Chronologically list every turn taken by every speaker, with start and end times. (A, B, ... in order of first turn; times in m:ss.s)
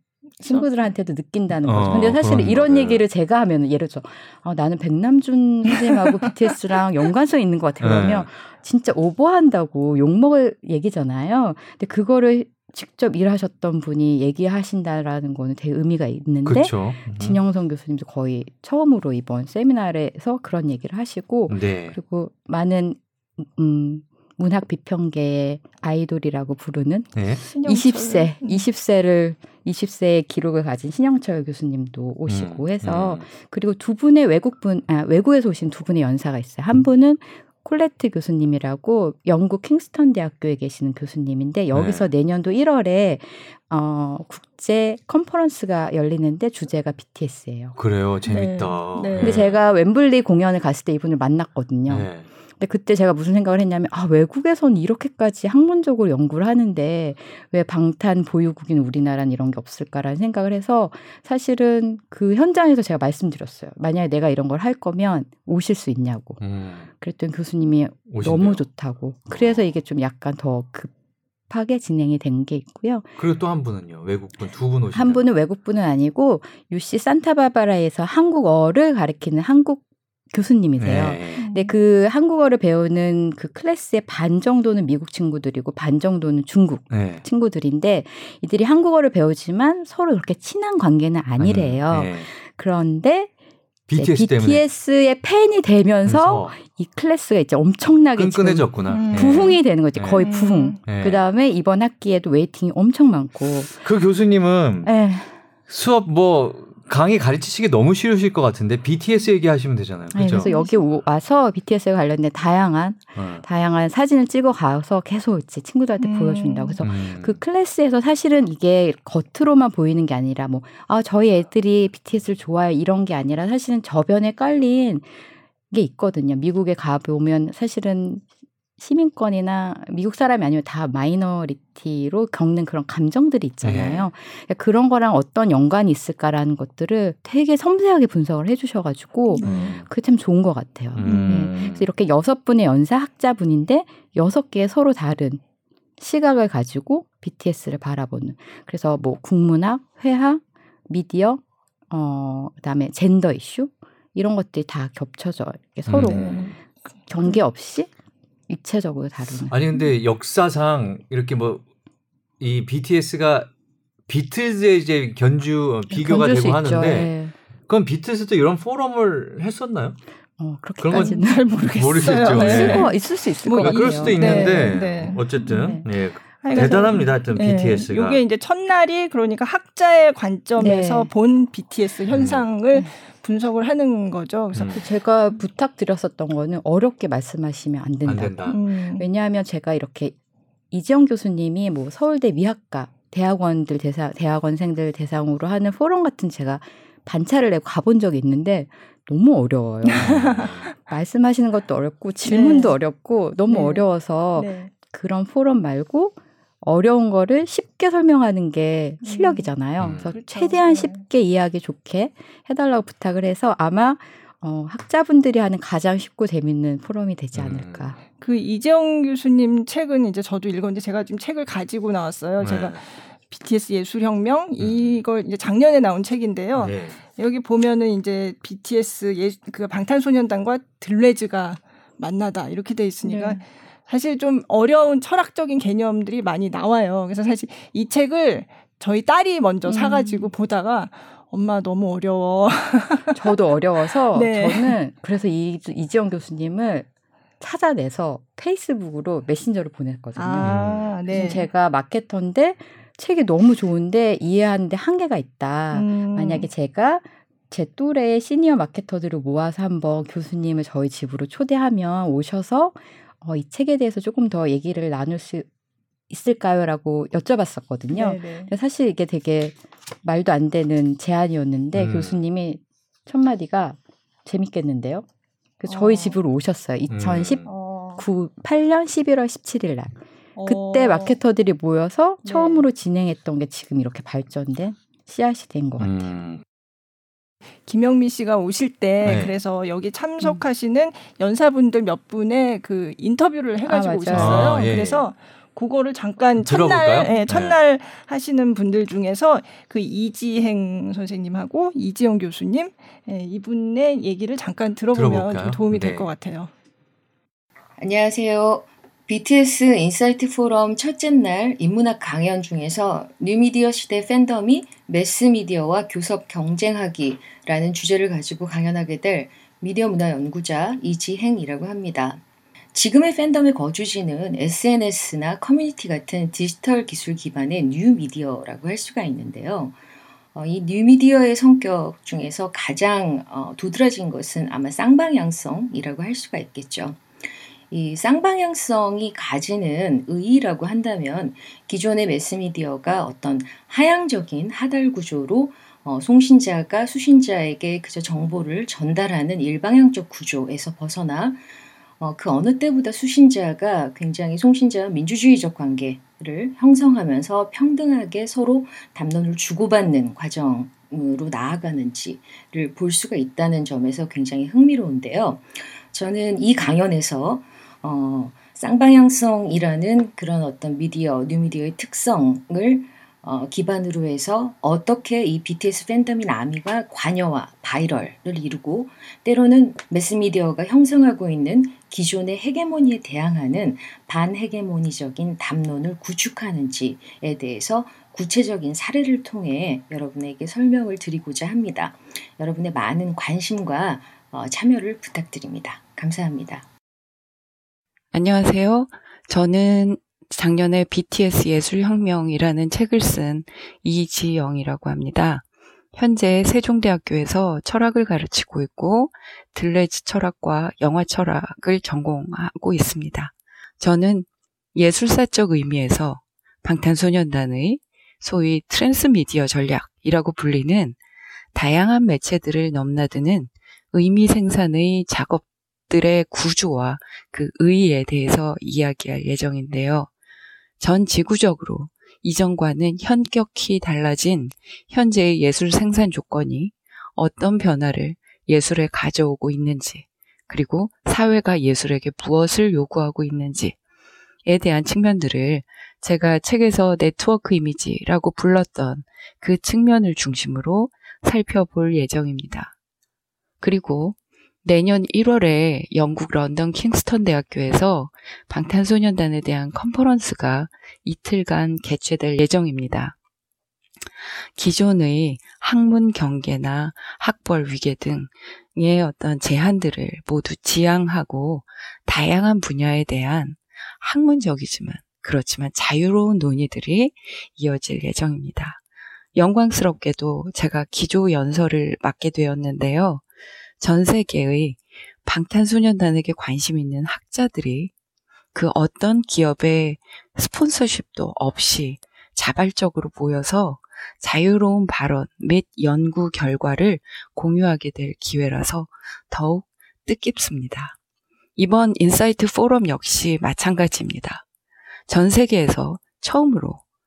0:00.4-0:00.8 A
0:00.4-0:47.8 B
0:01.6-0:03.0 C
0:07.8-0:08.3 C
0:16.4-0:17.4 C
0:21.5-0:22.0 C
0:27.2-0:27.4 C
0:27.4-0:28.7 A
0:32.3-0:33.2 C
0:41.7-0:42.1 C
0:47.8-0:49.6 C
0:48.3-0:49.4 A
0:49.2-1:06.4 B
0:51.9-0:52.2 C
1:06.4-1:06.9 C
1:07.0-1:10.9 B
1:08.1-1:08.6 C
1:09.3-1:09.6 C
1:11.5-1:13.1 B
1:13.2-1:15.2 C
1:14.9-1:33.3 B
1:20.8-1:21.4 C
1:21.4-1:21.7 A
1:26.9-1:27.2 C
1:31.4-1:32.3 C
1:33.9-1:34.6 C
1:33.9-1:43.8 B
1:36.0-1:36.5 C
1:38.2-1:40.3 C
1:38.9-1:39.6 A
1:40.2-1:40.8 A
1:40.8-1:41.2 C
1:43.8-1:44.9 C
1:44.8-1:45.3 B
1:45.7-1:50.5 C
1:50.1-2:08.2 B
1:50.4-1:50.8 A
1:53.2-1:53.4 C
1:56.0-1:56.8 A
1:56.8-1:57.4 C
2:08.8-2:25.4 B
2:13.6-2:14.1 C
2:19.3-2:19.8 A
2:19.4-2:19.8 C
2:20.9-2:21.8 C
2:21.0-2:21.5 A
2:26.0-2:36.6 B
2:35.9-2:36.6 C
2:36.0-2:36.5 A
2:37.1-2:37.9 B
2:38.5-2:39.6 B
2:39.5-2:41.6 C
2:42.4-2:43.5 C
2:44.1-2:47.1 C
2:45.9-2:47.3 B
2:47.7-2:50.0 C
2:50.4-2:55.8 B
2:50.8-2:53.0 C
2:50.9-2:55.8 A
2:53.6-2:58.2 C
2:56.4-3:04.8 A
2:56.5-2:56.9 B
3:00.6-3:01.1 B
3:02.1-3:02.4 C
3:04.5-3:04.8 C
3:04.7-3:10.1 B
3:08.0-3:08.6 C
3:08.5-3:09.1 A
3:10.7-3:38.0 B
3:19.9-3:20.4 A
3:19.9-3:20.7 C
3:22.2-3:22.8 A
3:23.5-3:24.7 A
3:29.0-3:29.5 A
3:29.8-3:30.1 C
3:30.1-3:31.0 A
3:37.3-3:37.9 C
3:38.2-4:03.3 A
3:42.4-3:42.8 C
3:44.6-3:45.0 C
3:46.5-3:47.0 C
3:53.0-3:53.4 B
3:59.6-4:00.3 B
4:03.1-4:06.9 B
4:04.1-4:04.8 A
4:07.4-4:10.5 B
4:10.2-4:11.5 A
4:10.4-4:10.9 C
4:11.1-4:25.5 B
4:15.7-4:16.5 A
4:26.1-4:35.0 B
4:27.9-4:28.5 A
4:31.7-4:32.2 C
4:35.6-4:46.1 B
4:35.6-4:36.2 A
4:36.9-4:37.5 C
4:37.4-4:38.0 A
4:40.4-4:41.2 A
4:42.2-4:42.6 A
4:45.8-4:46.4 C
4:47.7-5:06.5 A
4:49.0-4:49.3 C
4:53.6-4:54.7 B
4:54.1-4:55.1 C
4:56.4-4:57.6 C
5:04.9-5:06.1 C
5:07.8-5:22.2 D
5:22.7-5:29.8 D
5:30.3-5:37.0 D
5:37.7-5:51.4 D
5:52.0-6:36.6 D
6:38.1-7:01.0 E
7:01.5-7:10.1 E
7:10.8-7:23.8 E
7:24.4-7:32.7 E
7:33.6-7:43.2 E
7:44.5-7:58.8 E
7:59.3-8:03.2 E
8:03.8-8:07.9 E
8:08.5-8:21.0 E
8:21.6-8:24.4 E
8:25.1-8:26.8 E